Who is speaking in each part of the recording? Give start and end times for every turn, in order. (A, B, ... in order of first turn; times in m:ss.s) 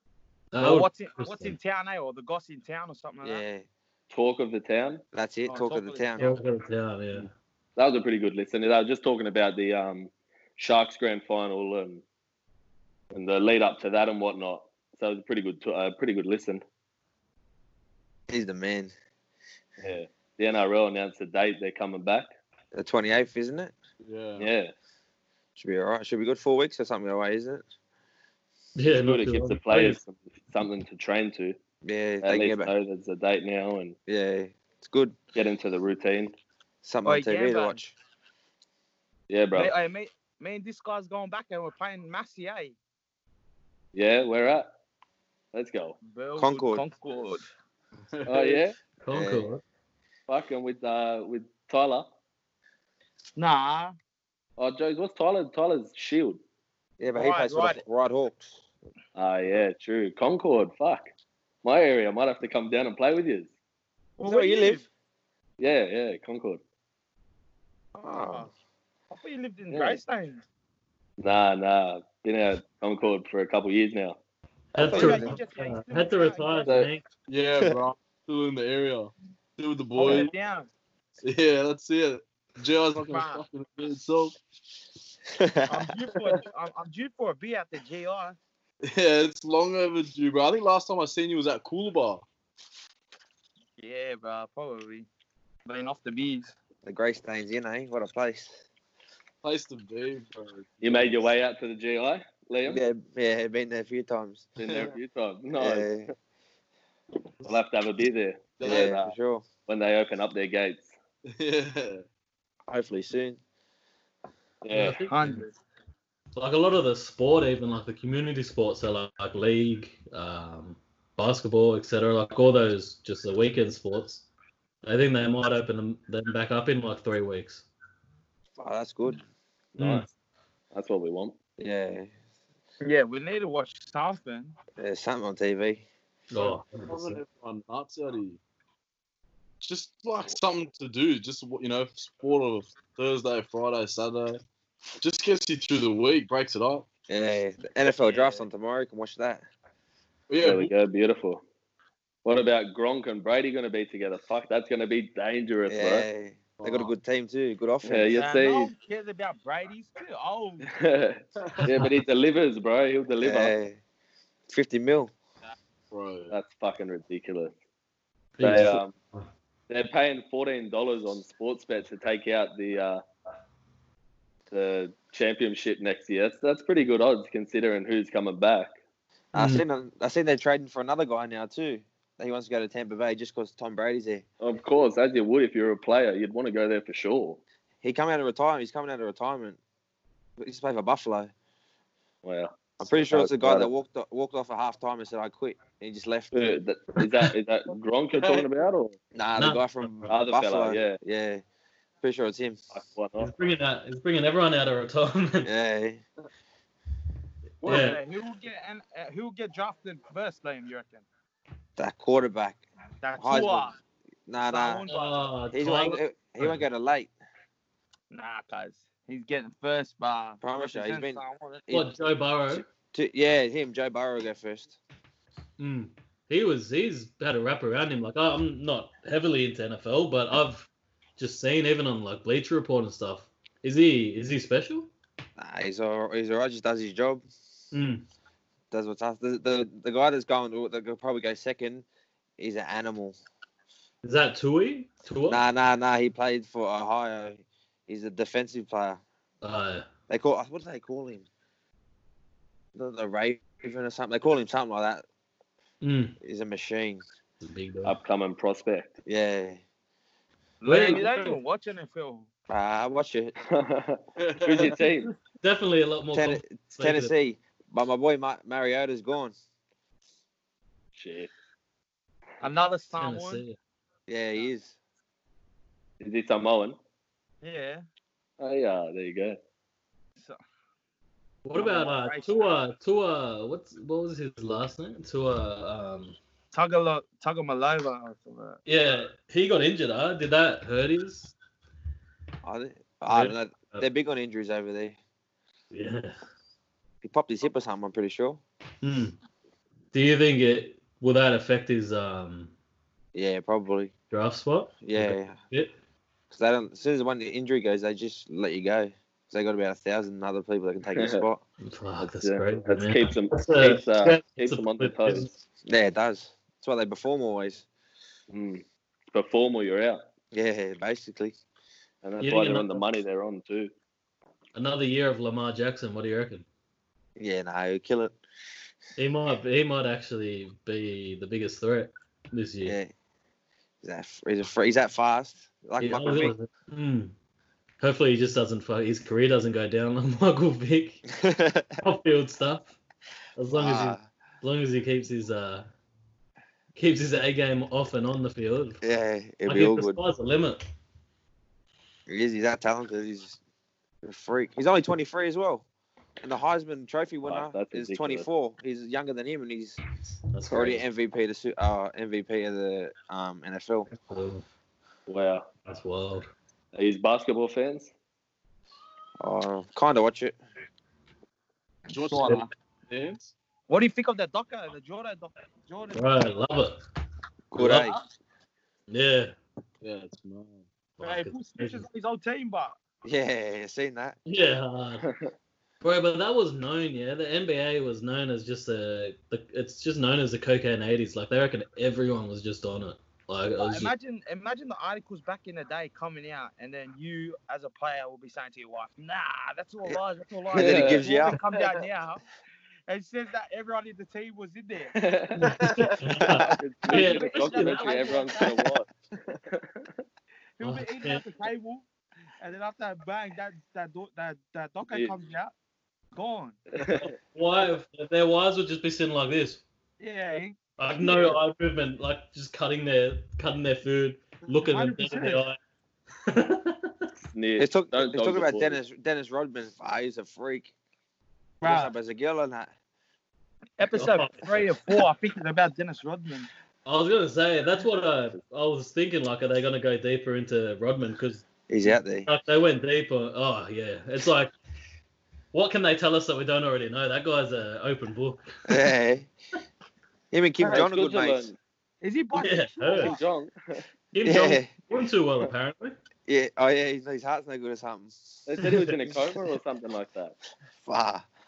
0:00.5-0:01.6 A
0:00.6-0:03.4 B
0:03.2-0:03.6 C
0:04.1-0:05.0 D
0:05.1-0:06.3 C
0:05.4-0:06.4 B
0:06.2-0:07.3 A
0:07.8-0:12.0 D
0:13.1-0:16.6 D
0:18.3-0:18.9 C
0:19.8-0:22.3 D
0:22.7-0:23.7 C
0:24.0-0:24.5 E
0:24.4-0:24.7 D
0:25.6-0:27.6 C
0:28.8-0:30.0 A
0:28.9-0:31.6 D
0:31.8-0:32.7 C
0:32.2-0:34.0 D
0:34.1-0:35.2 C
0:35.4-0:36.3 D
0:36.8-0:38.0 C
0:37.0-0:37.8 B
0:39.3-0:39.7 D
0:39.5-0:42.8 B
0:43.9-0:44.7 D
0:45.5-0:46.0 D
0:46.0-0:47.5 B
0:46.4-0:46.8 C
0:48.1-0:48.6 E
0:48.3-0:48.8 D
0:49.0-0:49.6 A
0:49.1-0:49.5 C
0:50.3-0:52.1 D
0:53.4-0:54.0 B
0:54.6-0:56.4 D
0:57.0-0:58.6 C
0:57.1-0:57.8 B
0:59.1-1:01.1 D
1:01.6-1:03.5 D
1:04.2-1:04.8 B
1:04.2-1:04.9 C
1:05.6-1:06.6 D
1:08.0-1:08.5 B
1:08.0-1:08.5 C
1:09.1-1:10.4 B
1:09.7-1:10.0 D
1:11.2-1:14.2 D
1:14.7-1:17.1 A
1:14.8-1:15.4 C
1:14.8-1:16.7 B
1:17.3-1:20.3 E
1:20.0-1:20.7 B
1:21.2-1:24.4 E
1:23.0-1:23.4 B
1:25.3-1:25.9 C
1:25.7-1:28.4 B
1:28.9-1:32.3 E
1:33.8-1:35.1 B
1:35.6-1:36.6 B
1:36.8-1:38.6 C
1:39.4-1:41.2 E
1:40.8-1:42.8 D
1:42.6-1:44.5 C
1:44.6-1:46.0 D
1:44.6-1:44.9 E
1:45.6-1:46.1 C
1:47.4-1:49.1 D
1:48.6-1:48.9 E
1:48.6-1:49.4 C
1:49.7-1:50.9 D
1:51.4-1:52.0 E
1:52.7-1:53.4 C
1:54.6-1:55.0 D
1:54.7-1:55.5 A
1:55.0-1:55.5 B
1:56.4-2:04.3 A
2:04.8-2:07.6 A
2:08.6-2:09.2 C
2:09.8-2:10.1 D
2:09.8-2:10.1 A
2:10.7-2:11.4 D
2:11.6-2:12.1 C
2:12.8-2:14.6 B
2:14.8-2:15.8 C
2:16.3-2:17.2 A
2:16.4-2:18.4 E
2:19.6-2:24.4 E
2:25.0-2:26.9 E
2:27.1-2:29.4 C
2:28.1-2:28.4 D
2:30.3-2:30.7 E
2:30.4-2:31.4 D
2:32.2-2:36.1 D
2:35.7-2:38.3 C
2:36.6-2:36.9 E
2:37.8-2:38.7 D
2:38.1-2:40.7 B
2:40.7-2:43.5 D
2:41.6-2:41.9 A
2:43.2-2:43.8 C
2:44.5-2:45.1 C
2:45.9-2:46.4 E
2:46.3-2:47.6 D
2:48.4-2:49.2 A
2:48.4-2:48.9 D
2:49.7-2:53.0 D
2:54.5-2:58.7 D
2:59.3-3:04.2 C
2:59.4-2:59.6 A
3:04.4-3:07.4 D
3:07.8-3:09.6 C
3:10.4-3:11.3 C
3:12.2-3:13.7 D
3:12.8-3:16.3 C
3:16.3-3:19.0 D
3:17.0-3:17.3 A
3:19.1-3:21.4 C
3:19.4-3:20.1 A
3:20.1-3:21.0 D
3:22.0-3:22.6 C
3:22.7-3:23.3 D
3:23.2-3:25.5 A
3:25.4-3:26.0 C
3:27.6-3:28.0 E
3:27.6-3:31.0 B
3:27.6-3:28.0 A
3:31.8-3:32.6 C
3:33.0-3:33.8 B
3:33.2-3:33.7 C
3:34.3-3:34.8 C
3:34.4-3:35.2 B
3:34.9-3:36.6 A
3:35.5-3:37.1 C
3:38.1-3:41.6 B
3:40.4-3:41.9 C
3:41.7-3:42.6 A
3:42.5-3:44.8 C
3:45.6-3:54.9 A
3:55.4-3:57.2 C
3:57.7-3:58.0 A
3:58.7-4:01.8 C
4:02.4-4:03.2 C
4:04.0-4:05.4 A
4:05.3-4:09.0 C
4:09.4-4:09.9 A
4:10.1-4:11.3 C
4:12.8-4:15.0 C
4:15.8-4:16.2 A
4:16.2-4:17.0 C
4:17.4-4:18.0 A
4:17.8-4:19.0 D
4:19.1-4:19.6 C
4:20.6-4:22.3 B
4:20.6-4:21.4 A
4:22.5-4:23.4 C
4:23.5-4:25.1 D
4:24.2-4:24.7 E
4:25.3-4:27.1 A
4:26.1-4:29.4 C
4:31.0-4:31.3 D
4:32.4-4:33.4 B
4:33.0-4:33.6 A
4:34.1-4:34.8 C
4:36.0-4:36.8 D
4:37.4-4:37.8 B
4:38.4-4:39.4 D
4:41.4-4:46.2 A
4:41.6-4:42.4 B
4:46.5-4:48.6 B
4:48.6-4:51.3 A
4:52.4-4:55.0 C
4:53.1-4:53.9 A
4:55.7-4:56.2 A
4:57.0-4:58.4 C
4:58.8-4:59.2 A
4:59.9-5:02.5 A
5:03.1-5:03.9 C
5:04.1-5:05.7 A
5:04.8-5:05.4 C
5:06.3-5:11.4 C
5:11.0-5:11.2 D
5:11.6-5:15.3 A
5:12.0-5:15.3 D
5:15.6-5:17.6 C
5:18.3-5:20.0 D
5:20.3-5:21.4 C
5:22.0-5:23.7 D
5:22.2-5:22.8 A
5:24.6-5:26.5 A
5:27.2-5:28.2 C
5:29.0-5:32.8 A
5:32.6-5:32.9 C
5:33.8-5:36.4 C
5:35.8-5:37.1 A
5:37.8-5:41.0 A
5:41.1-5:41.7 C
5:41.8-5:42.7 A
5:43.4-5:45.7 A
5:43.5-5:44.0 C
5:46.8-5:48.8 A
5:48.8-5:50.0 C
5:49.5-5:50.6 A
5:52.1-5:53.4 C
5:54.0-5:55.6 C
5:56.2-5:59.8 C
5:57.2-5:58.3 D
6:00.3-6:00.8 A
6:00.5-6:03.9 C
6:03.9-6:04.4 A
6:05.1-6:05.5 D
6:05.6-6:06.3 A
6:06.7-6:07.9 D
6:09.2-6:10.4 C
6:11.9-6:13.3 E
6:11.9-6:12.5 B
6:13.7-6:16.3 B
6:15.9-6:16.8 A
6:17.5-6:18.0 C
6:17.6-6:17.9 A
6:18.9-6:19.4 A
6:19.8-6:20.6 E
6:21.0-6:21.8 A
6:21.0-6:22.8 B
6:23.0-6:24.2 C
6:24.2-6:25.1 A
6:25.8-6:33.9 A
6:33.6-6:42.2 B
6:40.5-6:41.4 C
6:40.5-6:41.0 D
6:42.9-6:45.0 B
6:44.9-6:45.5 D
6:45.4-6:48.5 A
6:45.5-6:46.0 E
6:46.3-6:48.9 D
6:46.9-6:48.6 B
6:49.5-6:49.9 D
6:50.6-6:51.9 B
6:50.6-6:51.2 A
6:52.4-6:55.5 B
6:56.1-6:56.6 B
6:56.8-6:57.1 D
6:57.0-6:59.6 A
7:00.0-7:01.4 B
7:00.8-7:05.6 A
7:04.6-7:05.4 B
7:06.3-7:07.1 A
7:07.2-7:08.8 D
7:07.6-7:10.7 C
7:11.6-7:11.9 B
7:11.6-7:12.7 C
7:13.8-7:16.5 B
7:13.9-7:15.0 A
7:16.9-7:24.5 A
7:21.7-7:22.3 C
7:25.5-7:28.8 A
7:28.7-7:29.3 C
7:30.3-7:31.5 C
7:30.7-7:31.6 D
7:32.0-7:33.2 B
7:32.4-7:33.2 A
7:33.0-7:33.8 D
7:34.1-7:36.0 A
7:34.2-7:34.7 C
7:36.3-7:38.4 C
7:38.4-7:40.4 D
7:38.6-7:38.9 A
7:40.8-7:41.3 C